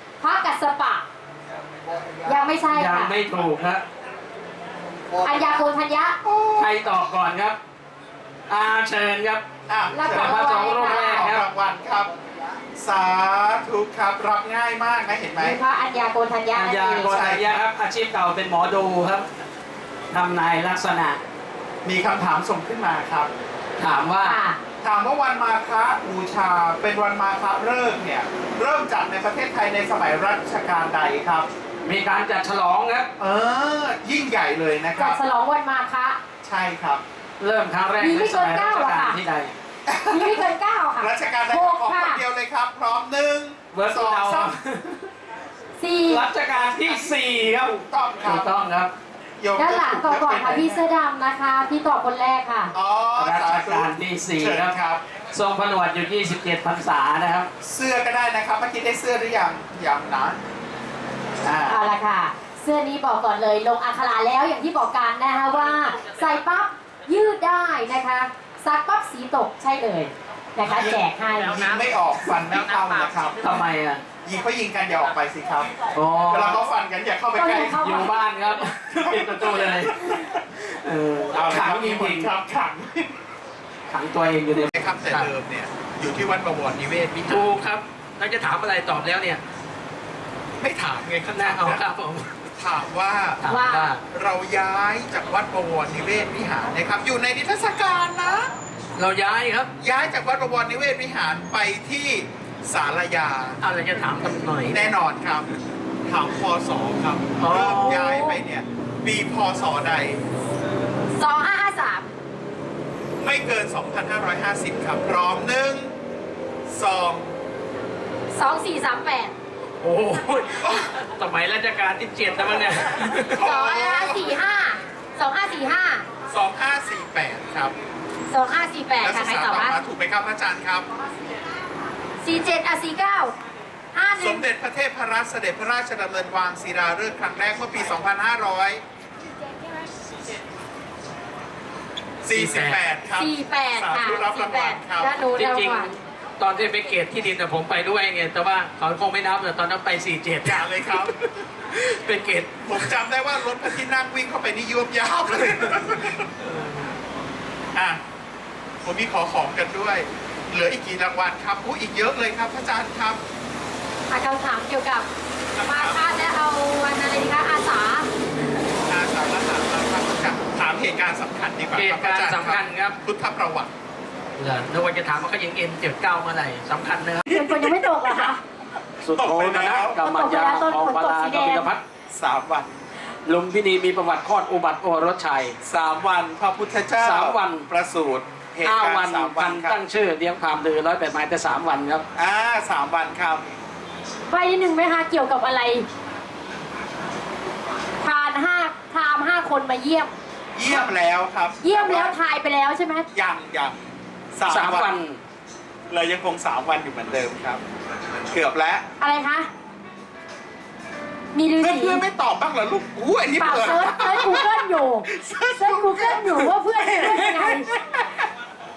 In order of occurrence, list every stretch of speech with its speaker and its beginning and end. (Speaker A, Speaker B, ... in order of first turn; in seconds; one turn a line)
Speaker A: 0.2-1.1
Speaker A: 2.3-3.1
Speaker B: 2.7-3.8
Speaker C: 5.1-5.5
Speaker A: 5.2-6.2
Speaker C: 6.2-6.9
Speaker B: 6.6-7.6
Speaker B: 8.5-9.4
Speaker C: 9.7-12.1
Speaker A: 9.9-11.2
Speaker B: 10.0-11.4
Speaker C: 12.8-15.6
Speaker A: 15.4-17.1
Speaker B: 16.6-19.2
Speaker C: 17.0-17.6
Speaker B: 20.1-21.2
Speaker C: 21.9-23.3
Speaker B: 23.8-24.4
Speaker A: 24.2-24.6
Speaker C: 24.8-31.5
Speaker B: 31.9-33.1
Speaker C: 33.2-35.2
Speaker A: 35.0-36.2
Speaker C: 36.4-37.0
Speaker B: 37.4-39.5
Speaker A: 38.0-39.2
Speaker C: 39.9-40.5
Speaker A: 40.1-42.2
Speaker C: 41.0-44.5
Speaker B: 43.7-45.1
Speaker A: 45.8-46.2
Speaker B: 46.1-48.9
Speaker C: 46.5-47.1
Speaker C: 47.9-48.5
Speaker C: 49.4-50.9
Speaker A: 49.6-52.7
Speaker C: 52.7-55.0
Speaker B: 53.2-54.7
Speaker B: 55.3-57.5
Speaker C: 57.6-60.4
Speaker C: 61.4-61.8
Speaker A: 61.7-71.7
Speaker C: 70.6-73.6
Speaker B: 73.4-74.0
Speaker C: 74.2-75.7
Speaker B: 75.9-76.6
Speaker C: 76.3-78.0
Speaker A: 77.3-78.2
Speaker B: 77.6-82.3
Speaker C: 79.0-80.4
Speaker C: 81.3-83.1
Speaker B: 83.9-85.3
Speaker C: 84.7-87.5
Speaker B: 87.2-89.4
Speaker C: 90.6-91.9
Speaker B: 91.3-92.5
Speaker C: 92.6-93.4
Speaker B: 93.4-94.0
Speaker A: 93.5-93.9
Speaker C: 94.1-98.5
Speaker B: 99.0-99.7
Speaker C: 99.8-103.6
Speaker B: 103.6-104.8
Speaker C: 104.7-105.5
Speaker C: 106.0-110.2
Speaker B: 107.4-108.4
Speaker A: 111.2-112.1
Speaker C: 113.2-116.0
Speaker C: 116.7-117.3
Speaker A: 118.3-119.3
Speaker B: 119.8-123.4
Speaker C: 120.6-120.9
Speaker C: 123.3-124.4
Speaker A: 123.4-126.1
Speaker C: 126.3-127.7
Speaker A: 128.3-129.8
Speaker C: 129.0-130.9
Speaker A: 132.2-133.3
Speaker A: 133.9-134.4
Speaker C: 134.2-138.8
Speaker C: 142.2-145.2
Speaker B: 142.3-142.8
Speaker A: 143.1-146.0
Speaker B: 145.3-152.9
Speaker C: 150.4-151.2
Speaker C: 152.6-156.3
Speaker B: 155.4-157.0
Speaker C: 157.7-158.0
Speaker C: 158.8-163.2
Speaker A: 164.1-165.1
Speaker C: 165.6-166.0
Speaker A: 165.7-168.1
Speaker C: 168.9-173.7
Speaker B: 171.8-173.0
Speaker B: 174.4-177.7
Speaker A: 177.3-178.4
Speaker B: 179.0-181.8
Speaker C: 179.2-180.0
Speaker A: 180.0-181.7
Speaker C: 182.1-182.7
Speaker B: 183.3-185.6
Speaker C: 185.6-189.8
Speaker B: 187.0-187.7
Speaker B: 188.6-192.0
Speaker C: 192.2-193.6
Speaker A: 194.3-195.9
Speaker A: 198.0-200.1
Speaker C: 200.6-202.2
Speaker A: 201.6-203.1
Speaker C: 203.1-203.8
Speaker C: 204.3-204.9
Speaker B: 204.5-205.2
Speaker C: 205.9-207.6
Speaker C: 208.3-208.9
Speaker A: 209.0-209.5
Speaker A: 211.3-212.0
Speaker C: 211.6-218.3
Speaker A: 213.4-217.7